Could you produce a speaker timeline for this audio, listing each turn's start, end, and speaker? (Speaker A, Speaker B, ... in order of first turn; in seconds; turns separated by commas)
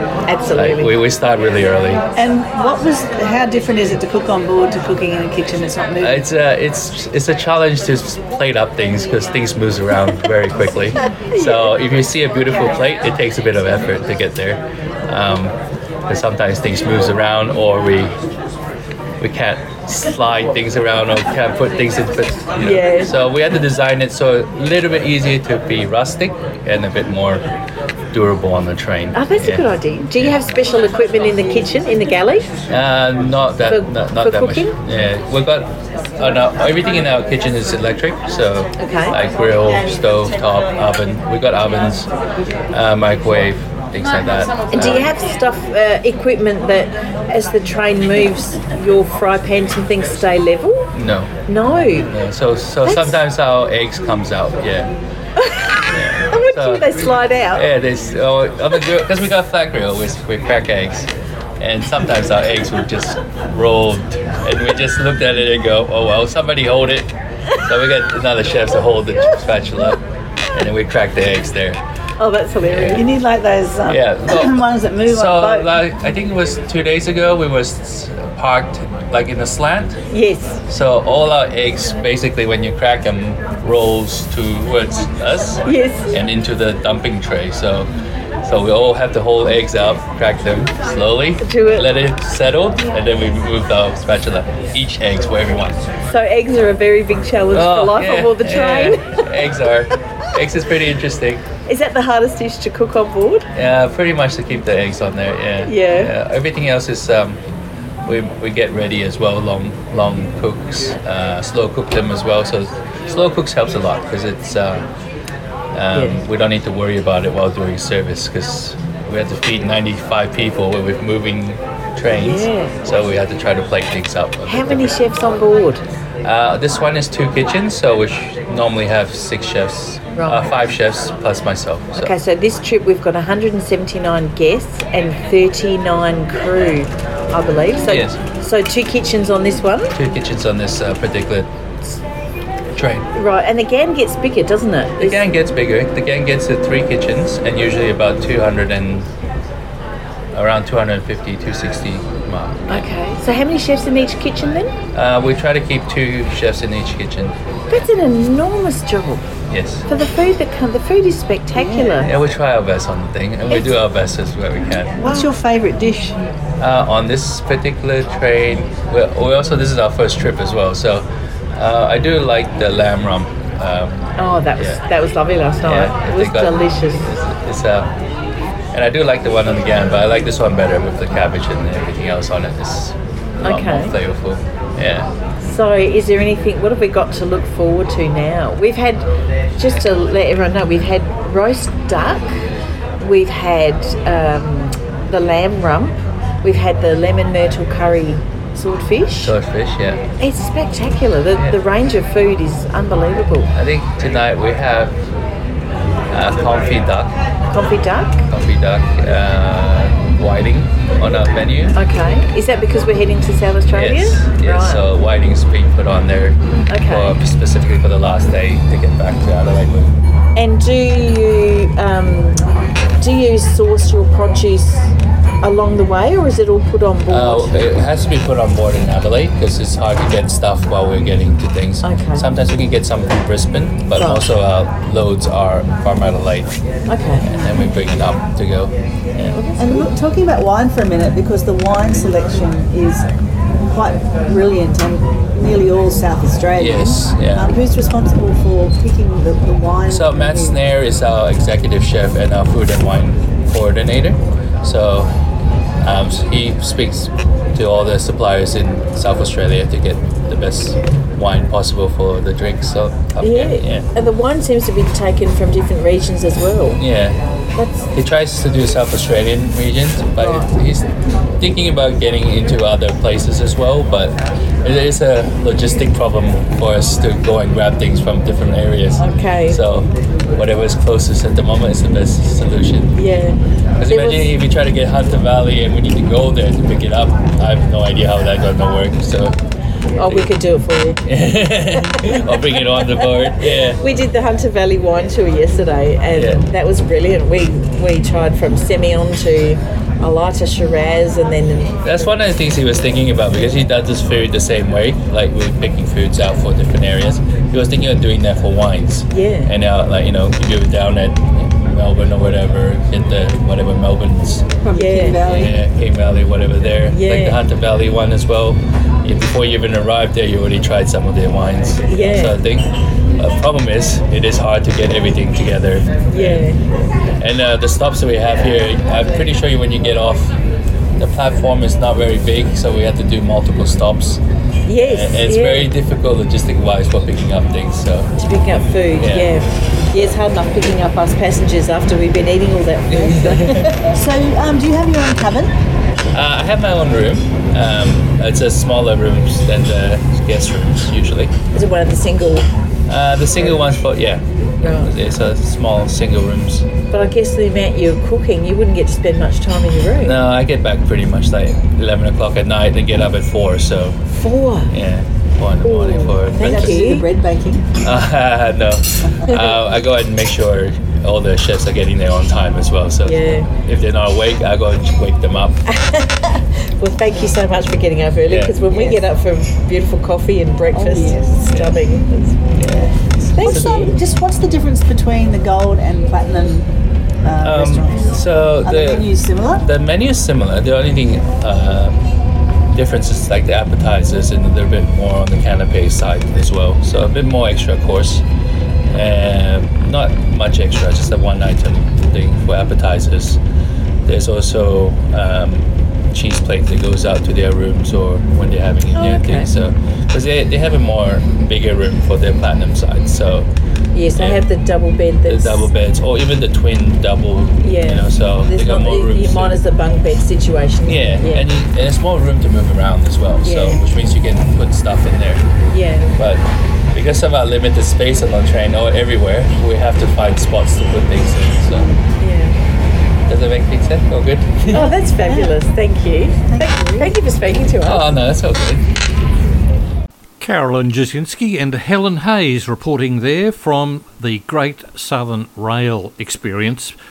Speaker A: 0.3-0.9, Speaker B: 0.5-2.0, Speaker C: 2.1-6.2, Speaker B: 6.0-15.5, Speaker B: 16.1-18.1, Speaker B: 19.2-27.5, Speaker A: 22.6-23.1, Speaker B: 28.1-29.6, Speaker A: 29.1-32.5, Speaker B: 32.7-42.1, Speaker A: 33.7-34.8, Speaker A: 38.8-39.2, Speaker B: 42.7-45.1, Speaker A: 44.7-50.9, Speaker B: 50.9-51.4, Speaker A: 51.5-52.1, Speaker B: 52.1-54.9, Speaker A: 52.8-53.2, Speaker A: 55.4-57.6, Speaker B: 55.9-57.0, Speaker B: 57.5-71.8, Speaker A: 72.2-73.1, Speaker B: 72.7-73.0, Speaker C: 72.9-75.7, Speaker B: 73.8-80.0, Speaker A: 80.1-80.6, Speaker B: 80.7-87.9, Speaker A: 85.7-86.1, Speaker B: 88.4-95.8, Speaker A: 91.4-91.9, Speaker A: 96.0-99.2, Speaker B: 97.5-101.4, Speaker A: 101.7-103.5, Speaker B: 103.5-107.4, Speaker A: 105.6-106.1, Speaker B: 108.0-114.9, Speaker B: 115.7-125.0, Speaker A: 115.9-116.2, Speaker A: 122.1-122.8, Speaker A: 124.5-125.8, Speaker B: 126.2-132.1, Speaker A: 130.2-130.5, Speaker A: 132.0-139.9, Speaker B: 137.9-138.2, Speaker B: 139.9-141.5, Speaker B: 142.7-143.1, Speaker A: 143.1-145.2, Speaker B: 145.0-149.1, Speaker B: 150.3-152.9, Speaker A: 152.7-154.7, Speaker B: 154.9-157.3, Speaker A: 157.7-159.3, Speaker B: 159.5-159.9, Speaker A: 159.9-162.1, Speaker C: 161.5-161.9, Speaker B: 162.0-165.0, Speaker C: 165.0-166.2, Speaker A: 165.0-165.3, Speaker B: 166.6-174.8, Speaker A: 174.2-177.1, Speaker B: 175.6-177.9, Speaker B: 178.7-185.1, Speaker A: 183.4-183.9, Speaker A: 185.4-189.1, Speaker A: 189.6-192.3, Speaker A: 193.0-199.3, Speaker B: 199.2-200.1, Speaker A: 200.2-203.5, Speaker B: 203.5-205.0, Speaker B: 206.1-207.1, Speaker A: 207.5-208.3, Speaker B: 208.3-211.8, Speaker A: 211.7-214.9, Speaker B: 213.7-219.9, Speaker A: 216.7-217.2, Speaker A: 220.3-222.4, Speaker A: 223.0-227.6, Speaker B: 227.1-236.6, Speaker A: 231.8-232.2, Speaker A: 233.9-234.3, Speaker A: 236.9-237.3, Speaker B: 237.2-239.4, Speaker C: 237.3-237.6, Speaker A: 239.2-239.9, Speaker C: 239.6-243.1, Speaker C: 243.7-250.6, Speaker B: 246.6-247.6, Speaker B: 249.9-255.1, Speaker B: 255.8-263.9, Speaker A: 263.2-266.8, Speaker B: 266.8-267.2, Speaker A: 267.6-267.9, Speaker B: 267.9-270.9, Speaker A: 270.2-270.4, Speaker B: 271.4-282.9, Speaker A: 279.0-279.6, Speaker A: 282.9-284.3, Speaker B: 283.8-289.4, Speaker A: 290.0-291.0, Speaker B: 290.0-290.3, Speaker B: 291.0-293.8, Speaker A: 291.7-292.9, Speaker A: 293.8-301.8, Speaker B: 296.1-296.4, Speaker B: 301.8-314.5, Speaker A: 309.1-309.5, Speaker C: 314.6-315.6, Speaker A: 314.7-315.2, Speaker B: 315.2-326.5, Speaker A: 316.9-317.4, Speaker A: 321.9-322.4, Speaker A: 326.1-326.6, Speaker B: 327.2-330.4, Speaker B: 331.0-334.2, Speaker A: 334.7-335.7, Speaker B: 334.8-338.1, Speaker A: 338.2-343.9, Speaker B: 339.0-339.3, Speaker B: 342.9-343.7, Speaker C: 343.7-345.5, Speaker B: 346.1-351.3, Speaker A: 351.5-352.5, Speaker B: 352.9-356.7, Speaker A: 354.6-354.9, Speaker A: 356.9-360.2, Speaker B: 360.0-364.0, Speaker A: 364.1-364.7, Speaker B: 364.7-366.8, Speaker A: 365.6-367.1, Speaker C: 366.4-367.7, Speaker B: 367.8-375.6, Speaker A: 373.0-373.5, Speaker A: 375.7-382.8, Speaker B: 378.3-379.0, Speaker C: 380.7-381.5, Speaker B: 381.5-381.8, Speaker B: 382.6-382.8, Speaker C: 382.7-386.7, Speaker A: 383.3-384.0, Speaker B: 383.4-383.7, Speaker C: 387.2-389.7, Speaker B: 387.4-392.0, Speaker B: 392.7-398.2, Speaker B: 398.9-403.4, Speaker B: 404.1-413.5, Speaker A: 408.9-409.5, Speaker A: 413.9-415.7, Speaker B: 414.2-414.4, Speaker B: 415.3-419.6, Speaker A: 417.6-421.5, Speaker B: 420.9-425.4, Speaker A: 423.4-423.8, Speaker A: 425.7-426.1, Speaker B: 426.2-431.9, Speaker A: 432.2-432.6, Speaker B: 433.3-434.9, Speaker A: 434.7-438.1, Speaker C: 435.2-435.6, Speaker C: 436.5-437.1, Speaker B: 437.8-438.9, Speaker D: 440.4-446.9